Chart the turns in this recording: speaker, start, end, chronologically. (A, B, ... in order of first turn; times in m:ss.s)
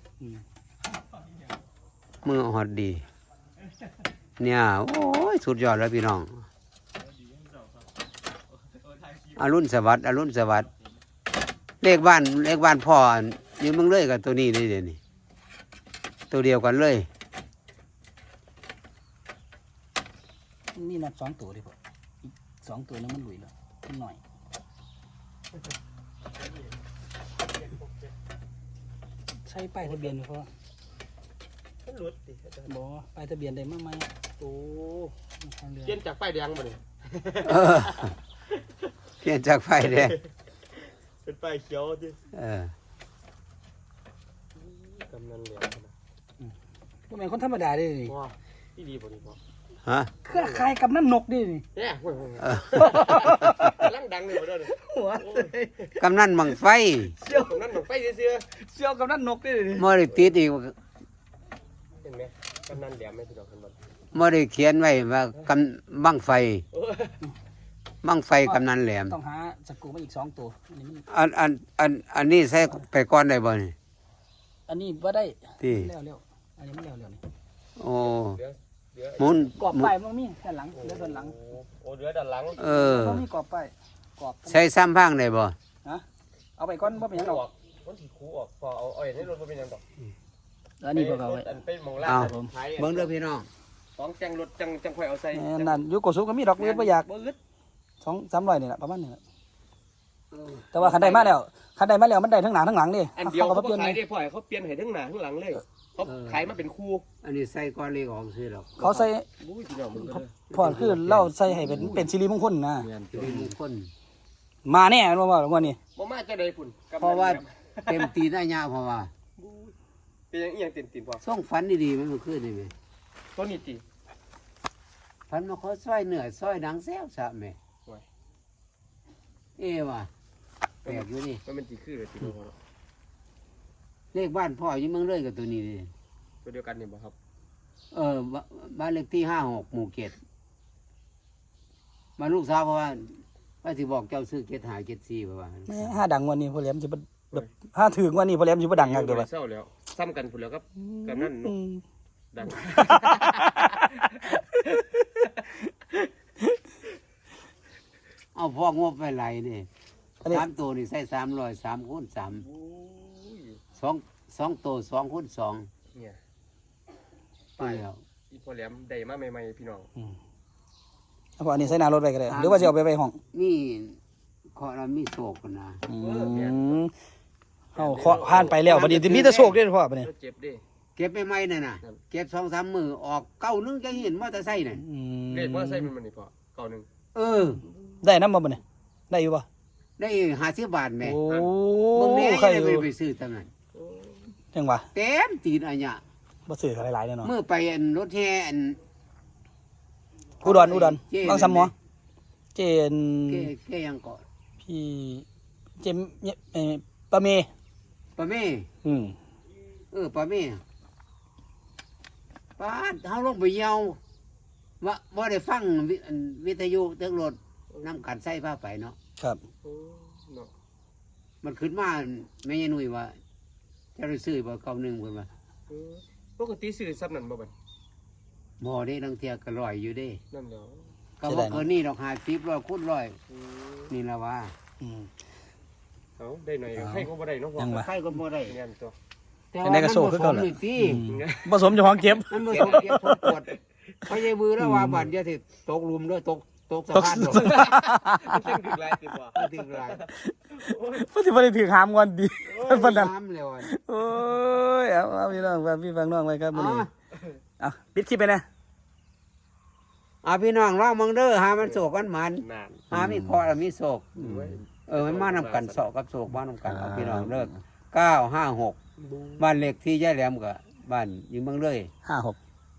0:02.2-0:03.1 A
0:04.4-0:06.4 A
0:07.3-0:07.7 B
0:08.7-0:09.4 B
0:09.4-0:10.7 A
0:11.8-0:15.0 A
0:16.3-0:17.1 A
0:20.7-0:24.2 C
0:27.5-0:28.1 B
0:29.4-0:30.5 C
0:31.8-0:32.7 B
0:32.7-0:36.0 C
0:35.8-0:38.9 B
0:37.4-0:38.2 A
0:39.2-0:40.2 A
0:39.8-0:40.2 B
0:40.8-0:42.2 B
0:42.3-0:42.7 A
0:44.6-0:45.9 B
0:47.1-0:48.1 C
0:48.1-0:49.4 B
0:49.8-0:50.1 A
0:50.3-0:51.6 C
0:50.3-0:50.7 B
0:51.8-0:55.6 B
0:52.4-0:52.8 A
0:52.8-0:53.9 C
0:54.7-0:55.9 C
0:56.0-0:57.2 A
0:57.2-0:57.6 C
0:57.3-0:58.5 B
0:58.6-0:59.9 C
0:59.8-1:00.8 A
1:02.0-1:03.8 B
1:04.1-1:06.6 A
1:06.7-1:07.2 B
1:08.0-1:09.2 A
1:08.4-1:11.1 C
1:11.1-1:13.8 A
1:14.7-1:17.2 C
1:15.6-1:15.9 A
1:17.8-1:18.4 A
1:18.1-1:19.4 B
1:19.2-1:19.9 A
1:19.6-1:21.4 C
1:20.7-1:22.7 B
1:22.6-1:23.3 A
1:22.6-1:24.6 C
1:24.5-1:25.6 A
1:26.6-1:27.4 C
1:26.8-1:29.8 B
1:30.8-1:31.5 C
1:30.9-1:33.1 B
1:32.0-1:33.5 A
1:32.1-1:32.5 C
1:34.0-1:35.8 B
1:35.3-1:37.1 C
1:36.6-1:37.4 B
1:38.0-1:39.2 C
1:40.3-1:40.7 A
1:40.7-1:44.0 C
1:40.8-1:41.4 B
1:43.2-1:47.1 B
1:46.0-1:46.5 A
1:47.2-1:48.9 A
1:48.8-1:49.3 C
1:48.9-1:50.4 B
1:50.1-1:52.9 C
1:50.5-1:52.1 A
1:51.6-1:52.0 B
1:52.8-1:53.5 B
1:53.1-1:53.9 A
1:54.7-1:55.8 C
1:56.0-1:58.1 B
1:57.0-1:59.1 A
1:59.4-1:59.8 B
2:00.3-2:01.2 B
2:01.2-2:02.7 A
2:03.4-2:03.8 B
2:05.3-2:07.6 A
2:09.6-2:10.1 A
2:10.8-2:11.4 A
2:10.8-2:12.6 B
2:14.1-2:15.9 A
2:16.4-2:17.2 B
2:17.9-2:20.2 A
2:22.2-2:26.0 A
2:25.7-2:29.3 C
2:28.7-2:31.6 B
2:30.8-2:31.8 C
2:32.3-2:33.6 B
2:32.6-2:34.8 C
2:34.8-2:35.3 B
2:38.4-2:39.7 A
2:40.2-2:42.5 A
2:42.4-2:43.6 B
2:43.8-2:45.7 A
2:45.9-2:46.2 B
2:47.6-2:49.9 B
2:47.6-2:48.0 A
2:51.4-2:53.2 C
2:52.3-2:52.8 A
2:53.3-2:54.0 A
2:54.5-2:55.8 A
2:55.9-2:56.9 C
2:56.0-2:56.8 B
2:57.8-3:00.1 C
2:57.8-2:58.6 B
2:58.0-2:59.6 A
3:00.0-3:00.6 B
3:01.0-3:04.8 A
3:04.8-3:05.9 C
3:05.3-3:06.9 B
3:07.2-3:07.6 A
3:08.0-3:09.5 C
3:10.0-3:11.2 A
3:11.0-3:12.9 C
3:11.3-3:11.5 B
3:11.9-3:13.5 A
3:13.7-3:14.3 B
3:14.5-3:14.9 C
3:14.9-3:16.0 A
3:16.5-3:17.3 C
3:17.2-3:18.8 A
3:20.4-3:21.7 C
3:20.4-3:21.7 A
3:22.6-3:23.5 C
3:23.3-3:24.2 A
3:24.6-3:25.2 C
3:25.8-3:27.5 C
3:28.2-3:28.7 A
3:28.8-3:29.2 C
3:29.9-3:30.6 A
3:32.6-3:34.0 A
3:34.8-3:39.0 A
3:39.6-3:40.5 B
3:41.4-3:43.2 A
3:44.0-3:45.3 A
3:45.7-3:47.5 B
3:48.6-3:50.2 A
3:50.3-3:50.9 B
3:51.2-3:53.2 A
3:51.3-3:51.7 C
3:53.3-3:53.9 B
3:53.9-3:54.5 A
3:54.8-3:55.1 C
3:56.2-3:57.8 B
3:56.8-3:57.1 C
3:57.6-3:57.9 C
3:57.7-3:58.6 A
3:58.5-3:59.0 B
3:59.5-4:01.1 A
3:59.6-4:03.1 C
4:01.1-4:01.7 B
4:02.3-4:07.6 A
4:02.5-4:03.6 B
4:04.6-4:05.0 C
4:06.9-4:08.5 C
4:07.4-4:11.0 B
4:09.4-4:10.1 A
4:10.1-4:16.9 C
4:12.6-4:13.7 A
4:16.5-4:16.9 A
4:17.1-4:17.4 B
4:17.6-4:18.4 C
4:20.2-4:28.8 A
4:22.4-4:22.9 B
4:22.9-4:23.4 C
4:24.2-4:25.9 B
4:26.6-4:27.6 C
4:29.0-4:29.5 B
4:29.4-4:31.9 A
4:32.0-4:32.4 C